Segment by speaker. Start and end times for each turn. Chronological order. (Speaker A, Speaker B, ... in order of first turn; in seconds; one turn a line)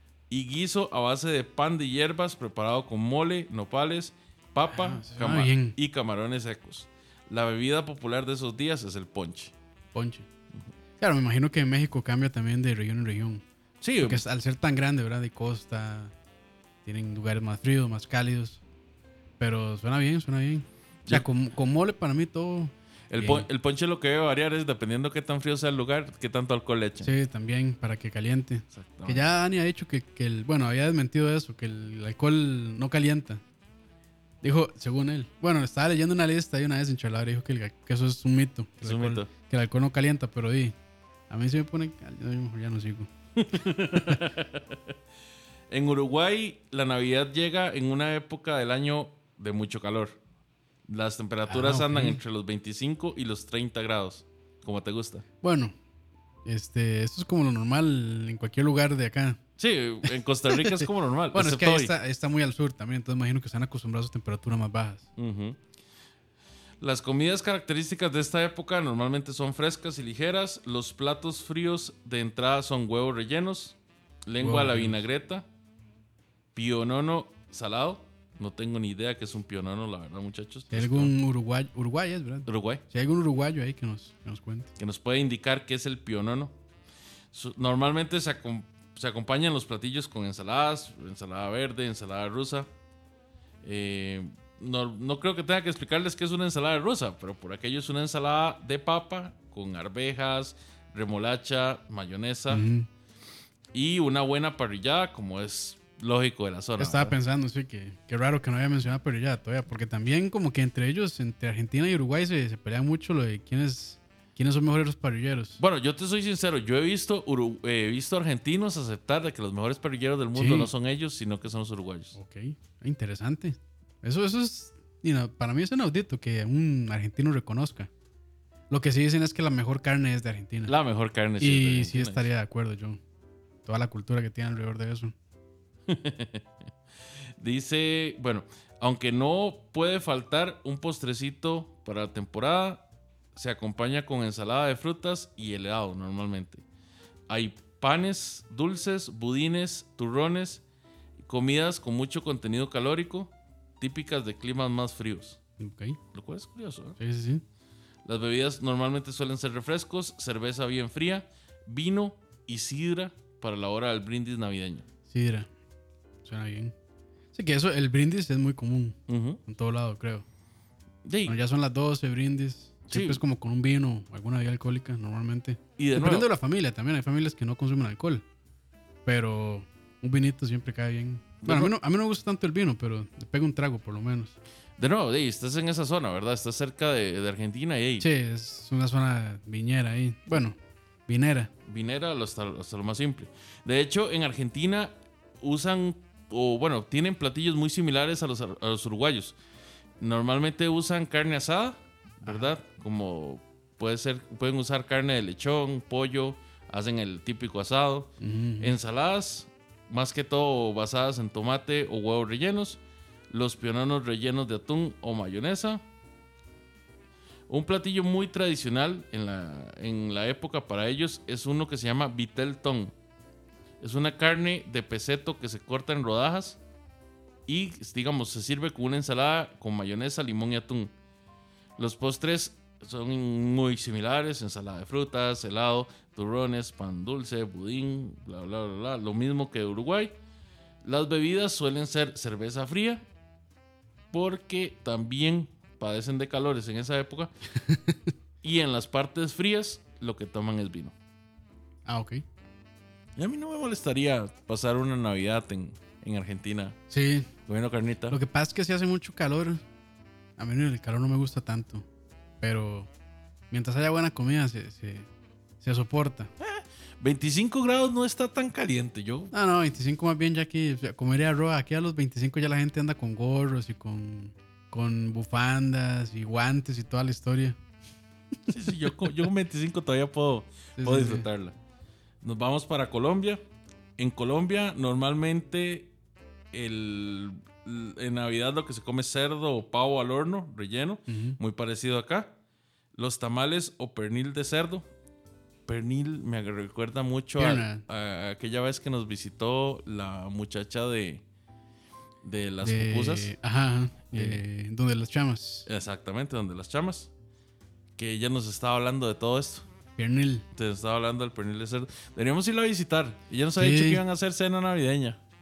Speaker A: 0.3-9.5
Speaker B: 4.7-5.8
Speaker B: 9.9-10.3
Speaker B: 11.0-13.4
Speaker A: 13.8-14.2
Speaker B: 14.0-16.1
Speaker B: 16.9-18.6
Speaker B: 19.4-23.5
Speaker A: 23.1-27.1
Speaker B: 27.0-33.4
Speaker A: 28.7-29.2
Speaker B: 34.4-40.8
Speaker A: 38.8-39.3
Speaker B: 41.3-43.1
Speaker A: 43.4-45.0
Speaker A: 45.7-50.2
Speaker A: 50.9-55.2
Speaker B: 51.5-52.2
Speaker B: 55.4-55.7
Speaker B: 56.5-59.4
Speaker A: 59.6-61.9
Speaker B: 60.5-65.1
Speaker A: 65.2-65.6
Speaker A: 66.8-73.8
Speaker A: 74.3-75.5
Speaker B: 74.4-75.0
Speaker A: 76.5-81.1
Speaker B: 80.7-84.7
Speaker A: 82.5-82.8
Speaker A: 84.8-86.5
Speaker A: 87.3-92.7
Speaker A: 93.6-102.7
Speaker B: 102.5-102.9
Speaker A: 103.7-107.2
Speaker B: 106.8-115.6
Speaker A: 115.6-122.2
Speaker B: 120.3-120.7
Speaker B: 122.2-127.9
Speaker B: 128.7-130.7
Speaker A: 130.7-132.3
Speaker B: 131.4-133.0
Speaker B: 133.7-135.1
Speaker A: 135.9-136.5
Speaker A: 137.4-146.6
Speaker A: 147.3-150.6
Speaker A: 151.2-155.4
Speaker B: 155.6-156.0
Speaker A: 156.1-157.0
Speaker B: 157.0-157.4
Speaker A: 158.1-164.8
Speaker B: 165.1-165.5
Speaker B: 166.2-166.7
Speaker B: 167.3-170.2
Speaker A: 169.1-169.4
Speaker A: 171.0-171.4
Speaker B: 171.3-178.2
Speaker A: 172.9-173.2
Speaker A: 175.8-176.3
Speaker B: 179.1-184.4
Speaker A: 181.4-181.7
Speaker A: 184.8-188.1
Speaker B: 188.0-191.5
Speaker A: 191.7-199.4
Speaker A: 200.0-215.8
Speaker B: 208.2-208.8
Speaker A: 217.5-222.9
Speaker A: 223.8-226.6
Speaker A: 227.5-230.9
Speaker A: 231.8-240.2
Speaker A: 240.8-243.0
Speaker A: 244.1-247.3
Speaker B: 247.6-248.0
Speaker A: 248.4-250.9
Speaker B: 251.9-252.2
Speaker A: 253.2-256.8
Speaker B: 256.9-257.3
Speaker A: 257.5-258.2
Speaker B: 258.1-259.6
Speaker B: 260.4-261.9
Speaker B: 262.4-262.9
Speaker B: 263.5-265.1
Speaker B: 265.6-266.3
Speaker A: 266.4-269.3
Speaker B: 269.3-277.6
Speaker A: 278.5-281.6
Speaker B: 280.8-281.3
Speaker A: 282.2-283.4
Speaker A: 284.0-285.9
Speaker A: 286.5-292.3
Speaker B: 291.1-291.4
Speaker A: 292.9-294.9
Speaker A: 295.7-301.2
Speaker B: 297.4-297.8
Speaker A: 302.2-303.4
Speaker B: 302.6-305.7
Speaker A: 304.1-304.4
Speaker A: 305.7-307.1
Speaker A: 308.0-309.7
Speaker B: 310.0-310.5
Speaker A: 310.6-315.2
Speaker B: 313.6-314.0